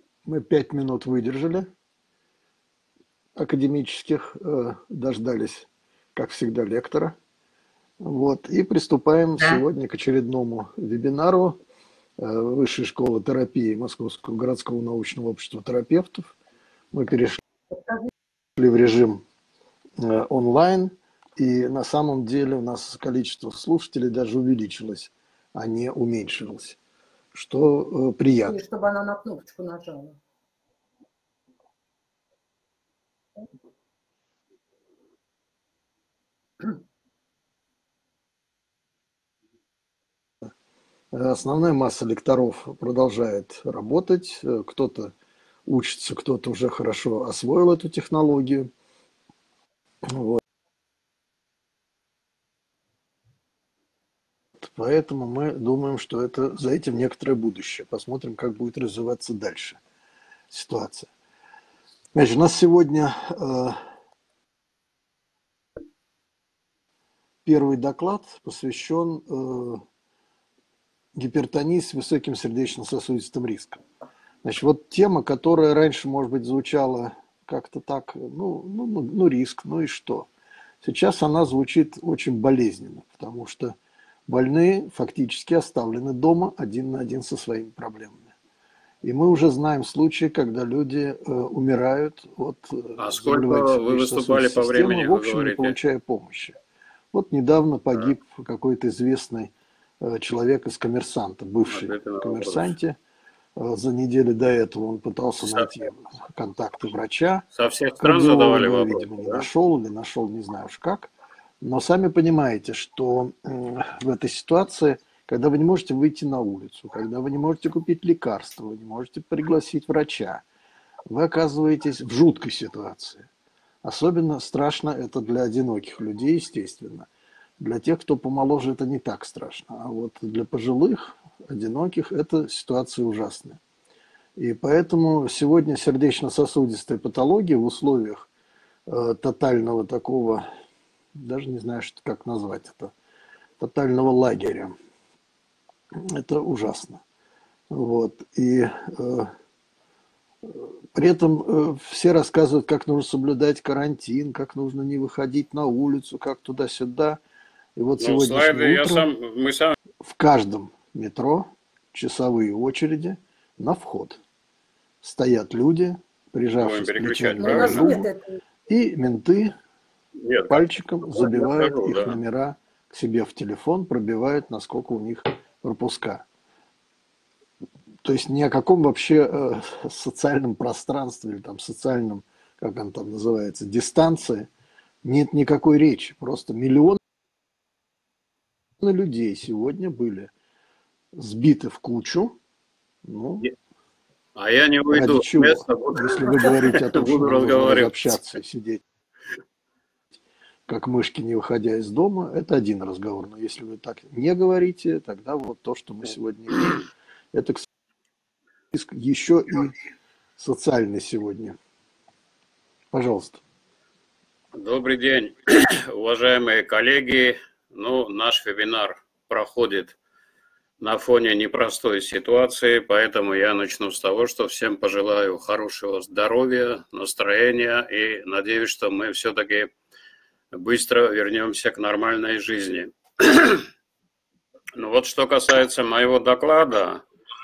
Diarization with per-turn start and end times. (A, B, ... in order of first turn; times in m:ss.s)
0:00.2-0:01.7 A
0:03.4-0:07.2 A
0:08.0-0:11.6 A
0:12.2-0:16.3 A
0:16.9-0:17.4 A
0:18.6-0:19.2 A
0:20.0-0:26.8 A
0:27.3-0:28.6 A
0:28.5-0:30.2 B
0:41.1-0:45.1 A
0:45.7-0:48.7 A
0:50.0-0:50.4 A
0:54.6-0:59.8 A
1:00.5-1:01.1 A
1:02.1-1:03.8 A
1:07.4-1:09.8 A
1:11.2-1:13.8 A
1:14.4-1:20.3 A
1:20.8-1:23.8 A
1:24.3-1:28.3 A
1:29.0-1:36.6 A
1:33.0-1:35.8 C
1:37.1-1:43.0 A
1:41.7-1:42.7 C
1:43.6-1:47.4 A
1:45.4-1:45.7 C
1:47.6-1:49.5 C
1:48.0-2:00.4 A
2:01.1-2:03.3 A
2:03.8-2:07.1 A
2:07.6-2:13.6 A
2:14.4-2:18.3 A
2:18.9-2:20.5 A
2:21.2-2:22.9 A
2:23.6-2:24.8 A
2:25.9-2:27.0 A
2:27.7-2:29.3 A
2:30.5-2:37.2 A
2:37.8-2:39.1 A
2:38.0-2:39.8 C
2:40.0-2:44.2 A
2:45.0-2:48.1 A
2:46.6-2:48.0 C
2:47.4-2:48.2 B
2:48.7-2:49.5 A
2:50.2-2:50.6 C
2:50.5-2:56.2 A
2:51.2-2:52.2 C
2:58.0-3:04.5 A
3:05.0-3:07.0 A
3:08.8-3:10.3 A
3:11.1-3:12.4 A
3:13.0-3:13.5 A
3:14.3-3:18.2 C
3:14.9-3:18.8 A
3:20.7-3:27.7 A
3:28.7-3:29.8 A
3:30.4-3:31.6 A
3:32.9-3:33.4 A
3:34.5-3:40.0 C
3:40.8-3:49.7 C
3:50.5-3:53.7 C
3:54.8-3:57.0 C